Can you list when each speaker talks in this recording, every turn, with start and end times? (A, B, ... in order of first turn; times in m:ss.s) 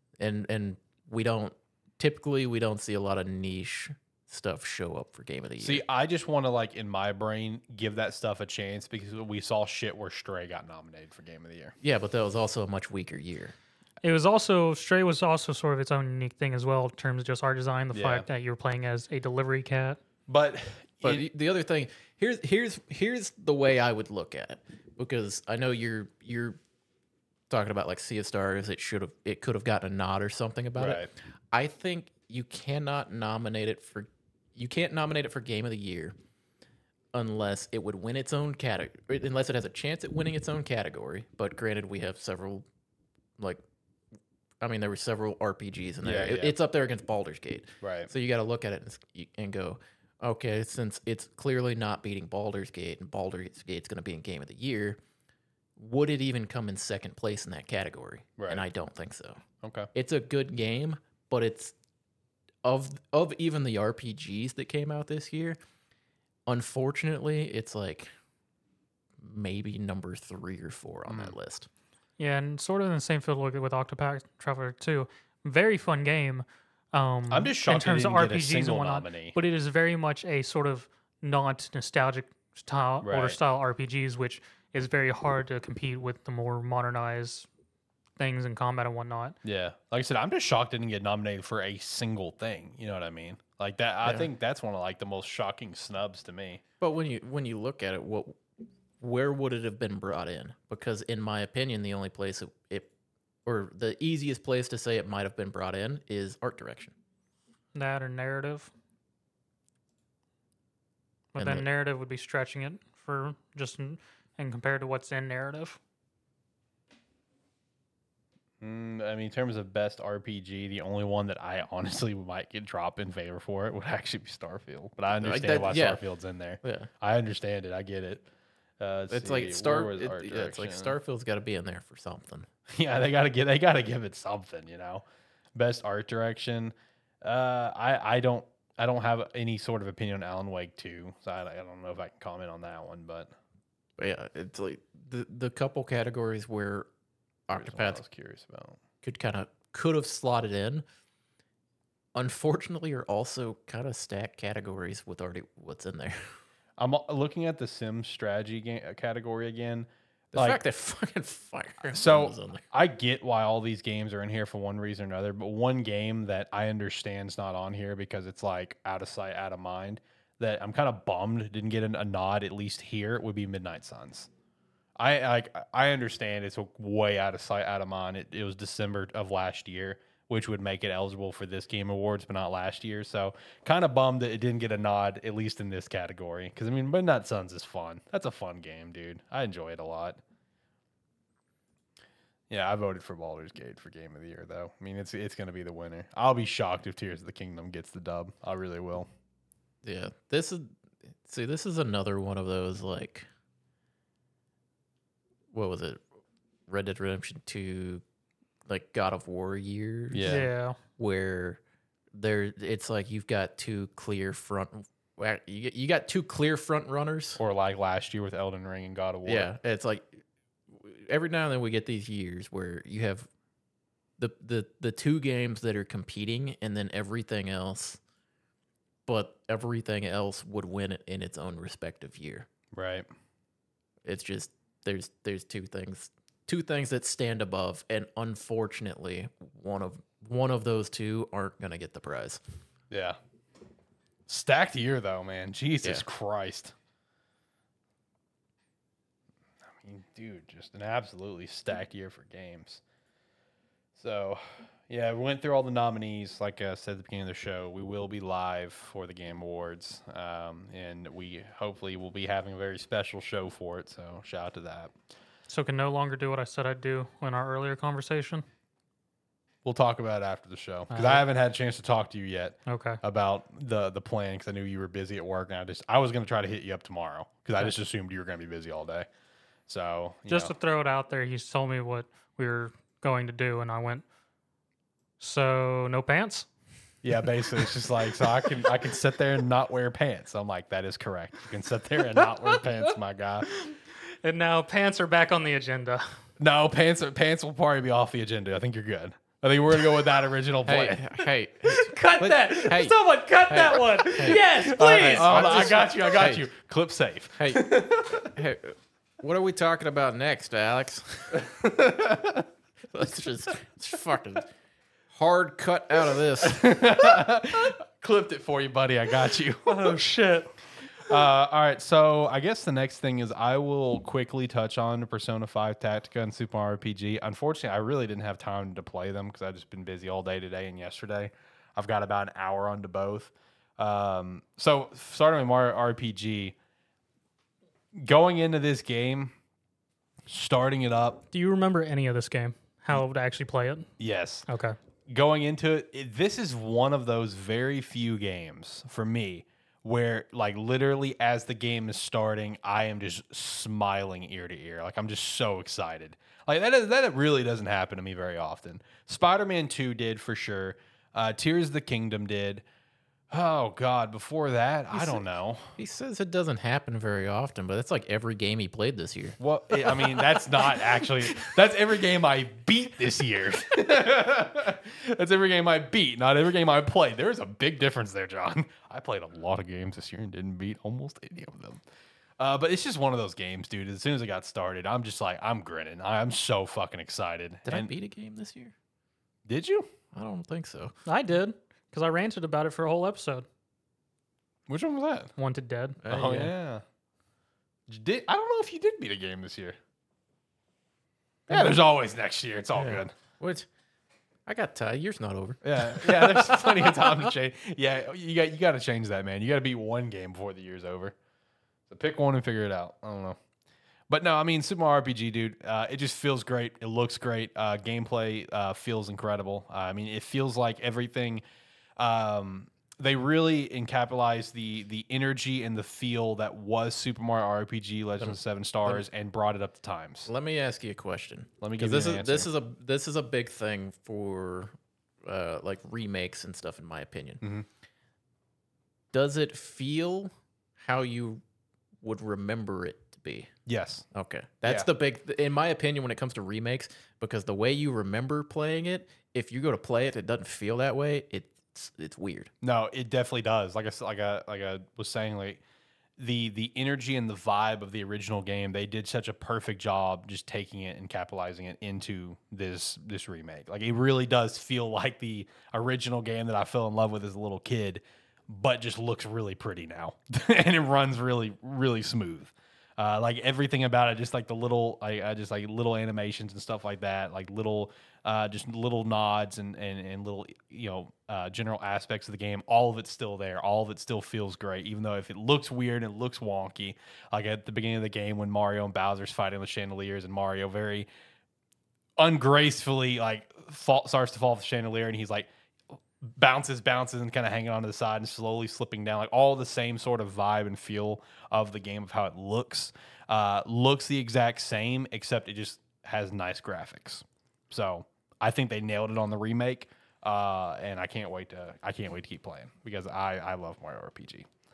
0:00.2-0:05.8 A
0:05.6-0:11.7 B
0:11.8-0:13.5 A
0:14.0-0:20.0 C
0:17.9-0:18.2 B
0:20.3-0:21.2 B
0:21.0-0:26.6 A
0:27.5-0:36.2 A
0:30.8-0:31.1 B
0:37.1-0:42.6 A
0:44.6-0:55.0 A
0:46.0-0:46.6 B
0:47.8-0:48.1 B
0:55.8-0:59.4 A
0:58.4-0:58.6 B
0:59.6-0:59.9 B
0:59.9-1:01.7 A
1:02.6-1:05.6 A
1:06.5-1:08.1 A
1:09.2-1:11.7 A
1:11.1-1:11.3 B
1:12.2-1:27.5 C
1:17.3-1:19.4 B
1:23.0-1:23.4 B
1:28.2-1:29.4 C
1:29.4-1:36.6 B
1:36.8-1:38.4 A
1:39.0-1:42.9 A
1:43.4-1:46.9 A
1:47.7-1:48.7 C
1:51.3-1:55.8 C
1:51.4-1:51.6 A
1:58.6-2:08.2 B
2:05.2-2:06.0 A
2:06.6-2:06.9 A
2:08.8-2:10.9 B
2:09.1-2:12.5 A
2:12.7-2:15.0 B
2:15.5-2:23.3 B
2:24.0-2:26.9 A
2:27.5-2:28.0 A
2:27.5-2:28.8 B
2:29.0-2:30.8 A
2:32.1-2:36.2 A
2:36.8-2:40.6 B
2:40.3-2:42.6 A
2:41.9-2:54.3 B
2:55.0-3:10.2 B
3:12.5-3:19.1 B
3:19.8-3:20.7 A
3:21.2-3:23.3 A
3:25.5-3:26.0 A
3:26.7-3:28.0 A
3:28.7-3:31.6 A
3:30.1-3:30.5 B
3:30.3-3:30.8 C
3:32.1-3:37.4 A
3:37.4-3:39.5 B
3:39.2-3:43.3 A
3:44.2-3:48.0 A
3:49.1-3:52.5 A
3:52.7-3:53.0 B
3:54.0-4:02.4 A
4:02.9-4:03.2 B
4:04.3-4:06.7 B
4:09.8-4:12.8 B
4:14.0-4:24.9 B
4:25.5-4:28.4 C
4:29.6-4:39.1 B
4:30.9-4:31.2 C
4:32.7-4:33.0 C
4:39.7-4:40.5 B
4:40.3-4:44.0 C
4:45.2-4:46.5 C
4:47.0-4:53.5 B
4:52.6-4:52.9 C
4:53.6-4:56.0 C
4:56.4-5:01.2 B
5:00.6-5:02.9 A
5:01.7-5:05.9 C
5:03.5-5:06.4 A
5:04.0-5:08.3 B
5:07.4-5:11.4 A
5:11.3-5:12.4 B
5:12.9-5:14.5 A
5:15.1-5:16.6 A
5:16.4-5:20.0 B
5:19.6-5:20.5 C
5:21.0-5:36.5 B
5:37.9-5:39.3 B
5:40.3-5:41.2 B
5:41.3-5:43.9 C
5:44.0-5:44.5 B
5:44.5-5:44.8 C
5:45.1-6:02.6 B
6:03.3-6:05.7 B
6:04.9-6:05.2 A
6:05.8-6:11.0 A
6:09.4-6:21.8 B
6:22.4-6:27.9 B
6:27.6-6:28.7 A
6:29.5-6:29.9 B
6:30.1-6:30.9 A
6:31.0-6:33.4 C
6:34.7-6:35.3 B
6:35.4-6:36.0 C
6:36.0-6:36.5 A
6:36.1-6:36.8 B
6:37.9-6:39.8 B
6:41.5-6:43.1 B
6:41.5-6:41.8 A
6:42.7-6:43.7 A
6:44.5-6:47.1 A
6:45.6-6:51.1 B
6:51.9-6:53.4 B
6:54.1-7:01.4 B
7:02.0-7:10.3 B
7:08.2-7:09.0 A
7:10.2-7:17.4 A
7:11.6-7:12.5 B
7:17.4-7:17.7 B
7:19.1-7:21.4 A
7:22.0-7:23.5 A
7:23.7-7:24.0 B
7:24.1-7:32.5 A
7:32.6-7:35.6 B
7:36.2-8:11.1 B
8:12.2-8:15.5 B
8:16.4-8:34.5 B